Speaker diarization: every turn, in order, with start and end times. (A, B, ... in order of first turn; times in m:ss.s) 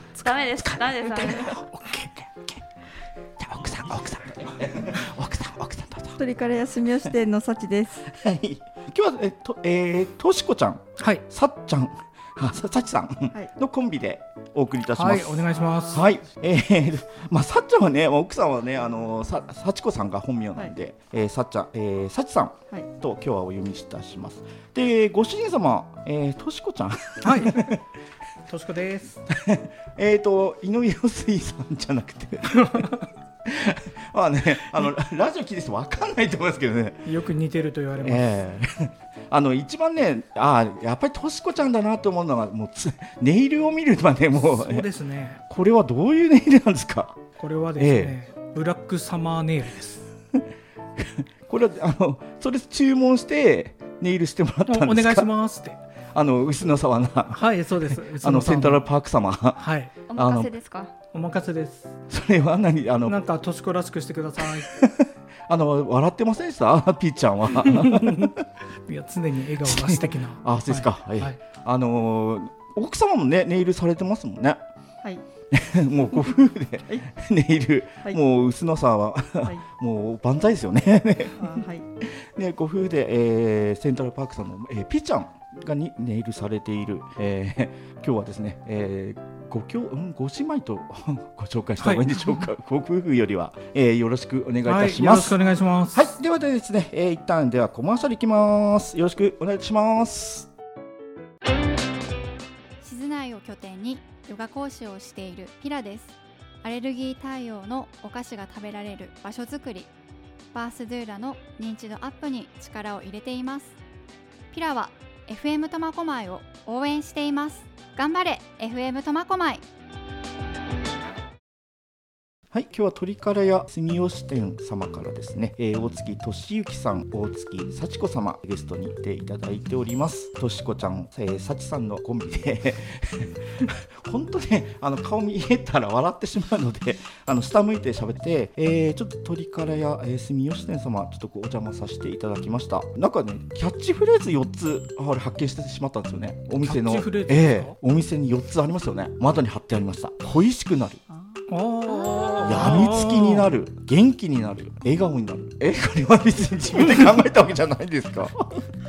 0:00.2-0:01.6 A
0:00.6-0:02.6 B
0:03.4-0:06.2 B
0:06.2-0:08.0 C
0:08.1-0:27.8 B
0:11.0-0:11.2 D
0:14.9-0:16.1 D
0:15.5-0:16.0 C
0:27.2-0:27.8 D
0:28.5-0:29.2 D
0:29.3-0:32.9 B
0:32.5-0:33.0 D
0:33.4-0:37.0 B
0:37.0-0:38.3 D
0:38.0-0:44.8 B
0:44.4-0:45.4 D
0:45.5-0:47.2 B
0:47.4-0:50.0 D
0:47.8-0:48.1 B
0:51.0-0:55.3 B
0:54.7-0:55.8 D
0:56.1-0:57.4 B
0:57.3-0:58.8 D
0:58.2-0:59.6 B
0:59.6-0:59.9 D
1:00.1-1:00.9 A
1:00.2-1:00.5 B
1:01.1-1:01.9 D
1:02.1-1:03.2 B
1:03.0-1:04.8 D
1:04.7-1:08.3 B
1:07.5-1:08.3 D
1:08.9-1:11.4 D
1:09.6-1:14.6 B
1:15.5-1:21.4 B
1:21.4-1:21.8 C
1:22.0-1:35.4 B
1:31.8-1:32.4 D
1:34.6-1:36.1 D
1:35.9-1:40.5 B
1:42.8-1:49.9 E
1:50.5-1:53.7 E
1:54.5-1:59.6 E
2:02.5-2:31.0 B
2:26.6-2:27.7 D
2:31.5-2:33.5 D
2:31.9-2:32.2 C
2:32.4-2:38.6 B